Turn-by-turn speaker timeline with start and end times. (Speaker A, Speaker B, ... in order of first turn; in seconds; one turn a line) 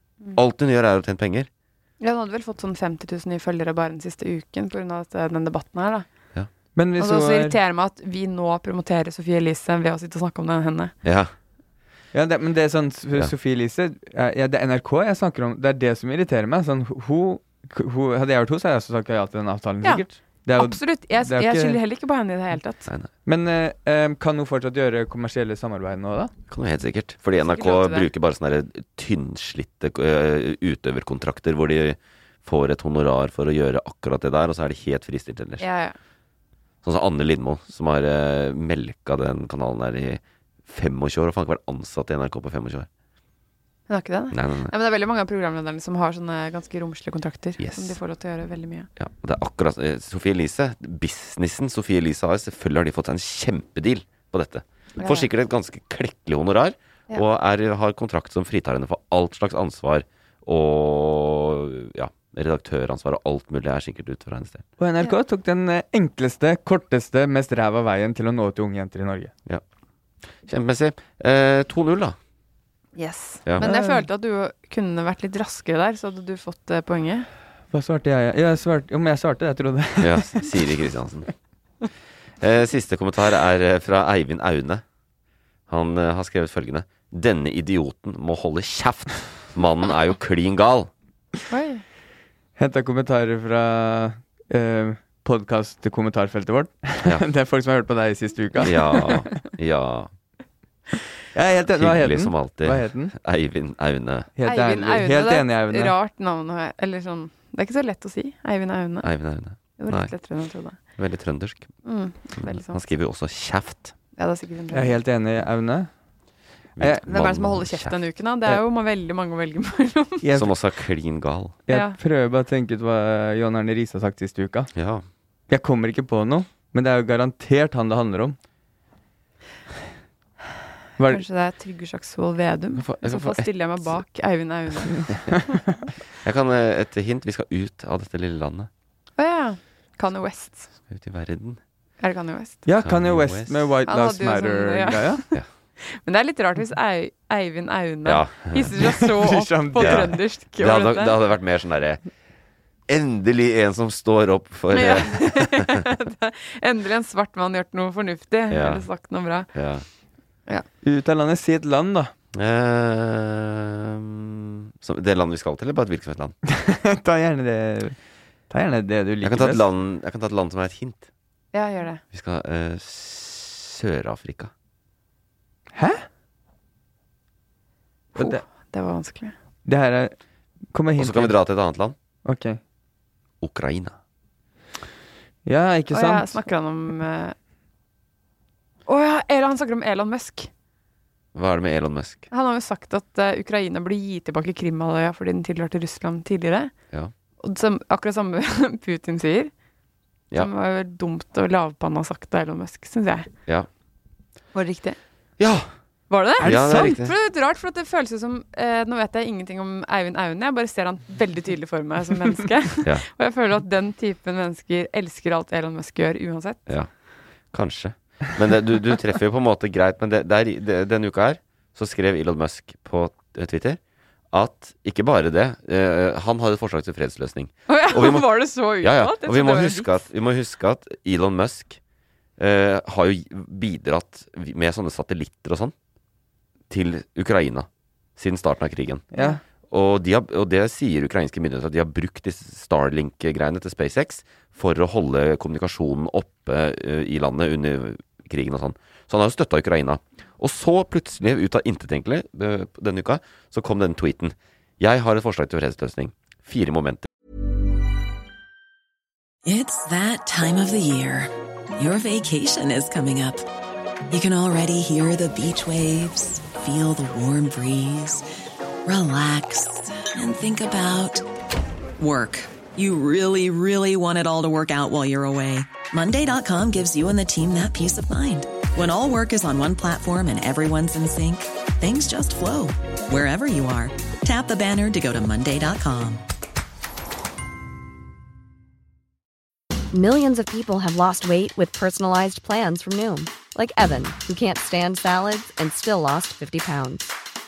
Speaker A: 0.3-1.5
Speaker B: 2.0-6.0
Speaker C: 6.7-7.6
Speaker B: 7.0-10.9
Speaker A: 11.0-11.3
Speaker C: 12.1-21.8
Speaker B: 20.6-22.9
Speaker C: 23.2-26.3
Speaker A: 26.5-35.6
Speaker B: 27.4-28.1
Speaker B: 35.6-35.9
Speaker A: 36.8-42.9
Speaker B: 43.9-48.9
Speaker A: 44.3-44.7
Speaker A: 47.6-48.0
Speaker A: 49.0-64.6
Speaker B: 55.0-55.3
Speaker C: 64.8-69.3
Speaker A: 70.4-72.2
Speaker B: 73.0-77.3
Speaker C: 73.6-74.0
Speaker C: 77.7-80.5
Speaker A: 80.0-81.3
Speaker A: 82.4-84.8
Speaker A: 85.7-90.9
Speaker B: 91.5-91.8
Speaker C: 92.6-99.3
Speaker A: 98.6-100.1
Speaker C: 101.3-103.1
Speaker A: 101.7-104.3
Speaker C: 104.4-105.9
Speaker B: 104.4-109.1
Speaker A: 109.0-110.1
Speaker B: 109.8-110.8
Speaker A: 111.0-111.7
Speaker B: 111.8-112.8
Speaker A: 112.4-113.9
Speaker B: 114.2-115.0
Speaker C: 114.7-115.9
Speaker A: 116.8-118.0
Speaker B: 117.0-120.2
Speaker C: 120.2-120.5
Speaker A: 120.3-121.5
Speaker C: 121.7-124.7
Speaker B: 121.7-122.0
Speaker A: 124.7-125.0
Speaker C: 125.5-128.4
Speaker C: 131.0-131.2
Speaker B: 131.1-135.1
Speaker A: 132.8-134.0
Speaker A: 136.2-138.7
Speaker B: 139.2-140.7
Speaker A: 140.9-141.6
Speaker B: 142.0-142.7
Speaker C: 142.7-145.2
Speaker A: 142.8-143.6
Speaker B: 143.9-151.2
Speaker A: 148.1-148.7
Speaker C: 149.1-150.1
Speaker A: 149.8-152.0
Speaker A: 152.9-155.8
Speaker B: 154.7-159.5
Speaker A: 158.5-158.9
Speaker A: 159.5-159.9
Speaker C: 160.8-162.1
Speaker A: 162.3-166.3
Speaker C: 166.5-167.9
Speaker C: 168.5-169.6
Speaker A: 169.2-171.1
Speaker B: 171.5-172.0
Speaker A: 172.1-174.5
Speaker C: 175.7-176.1
Speaker B: 178.1-179.3
Speaker C: 178.2-178.4
Speaker C: 179.7-180.1
Speaker C: 180.7-181.3
Speaker A: 181.0-181.9
Speaker C: 182.2-182.6
Speaker A: 183.4-183.9
Speaker C: 185.4-186.4
Speaker B: 185.9-187.3
Speaker B: 188.9-190.5
Speaker A: 191.3-192.3
Speaker B: 192.3-196.7
Speaker B: 197.4-199.5
Speaker B: 200.3-203.3
Speaker B: 204.5-205.0
Speaker A: 205.4-205.7
Speaker B: 206.1-216.7
Speaker C: 206.4-206.9
Speaker A: 206.4-207.1
Speaker A: 217.5-223.8
Speaker A: 224.3-231.8
Speaker B: 227.7-229.9
Speaker A: 232.4-235.7
Speaker A: 236.7-239.1
Speaker C: 239.1-239.4
Speaker A: 239.7-257.1
Speaker D: 259.4-263.4
Speaker D: 264.1-268.2
Speaker D: 268.8-271.2
Speaker D: 272.0-286.2
Speaker E: 289.9-297.1